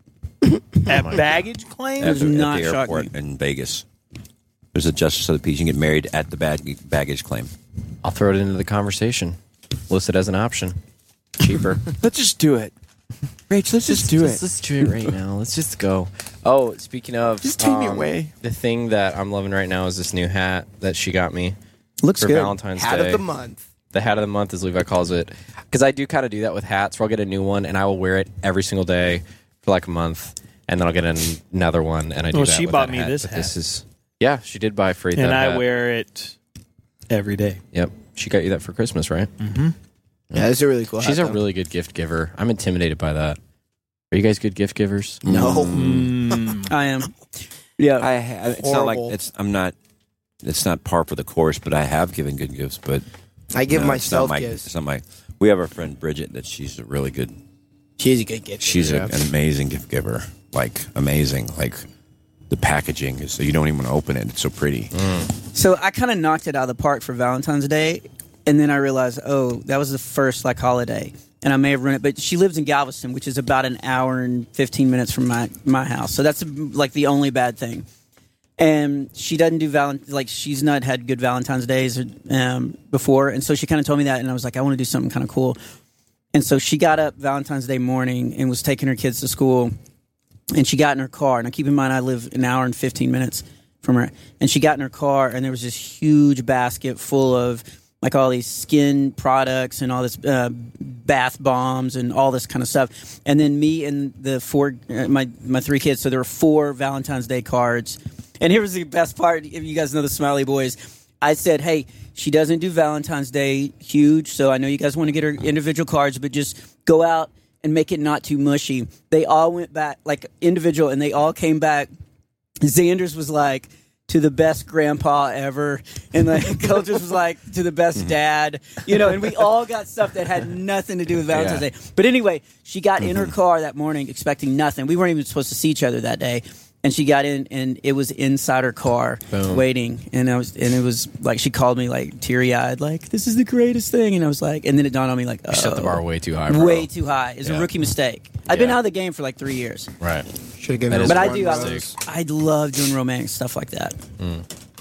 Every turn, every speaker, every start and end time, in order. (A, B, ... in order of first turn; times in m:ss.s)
0:00.9-0:02.2 A
0:00.9-0:01.2 B
0:02.0-0:03.8 C
0:02.0-0:03.1 D
0:04.7-0:07.5 C
0:08.0-0:09.4 B
0:09.9-0:10.8 B
0:11.4-0:11.8 B
0:12.0-0:12.7 C
0:13.5-0:15.1 C
0:13.8-0:21.6 B
0:17.4-0:18.3 C
0:22.0-0:22.6 D
0:22.2-0:23.2 B
0:22.8-0:23.6 E
0:23.9-0:35.7 B
0:32.3-0:33.5 A
0:35.2-0:36.4 A
0:37.1-0:37.6 A
0:37.7-0:39.3 B
0:39.4-0:39.7 A
0:40.3-0:43.4 B
0:40.3-0:41.4 E
0:44.1-0:45.6 B
0:45.3-0:46.0 E
0:45.3-0:46.2 C
0:45.7-0:46.7 A
0:46.7-0:47.2 D
0:47.8-0:48.1 D
0:48.0-0:49.8 C
0:48.6-0:49.2 E
0:50.4-0:53.0 C
0:53.5-0:54.7 E
0:53.7-0:57.4 C
0:58.0-0:59.0 E
0:58.6-1:01.9 C
0:58.8-0:59.1 B
1:02.5-1:04.9 C
1:05.0-1:05.3 B
1:05.5-1:17.9 D
1:18.6-1:25.6 D
1:26.3-1:29.8 D
1:30.5-2:01.9 D
2:02.6-2:29.9 D
2:11.3-2:11.6 B
2:19.3-2:19.6 B
2:25.5-2:26.9 B
2:28.5-2:28.8 B
2:30.0-2:30.3 B
2:30.6-2:31.9 E
2:30.9-2:32.0 B
2:31.0-2:34.0 D
2:34.2-2:34.4 B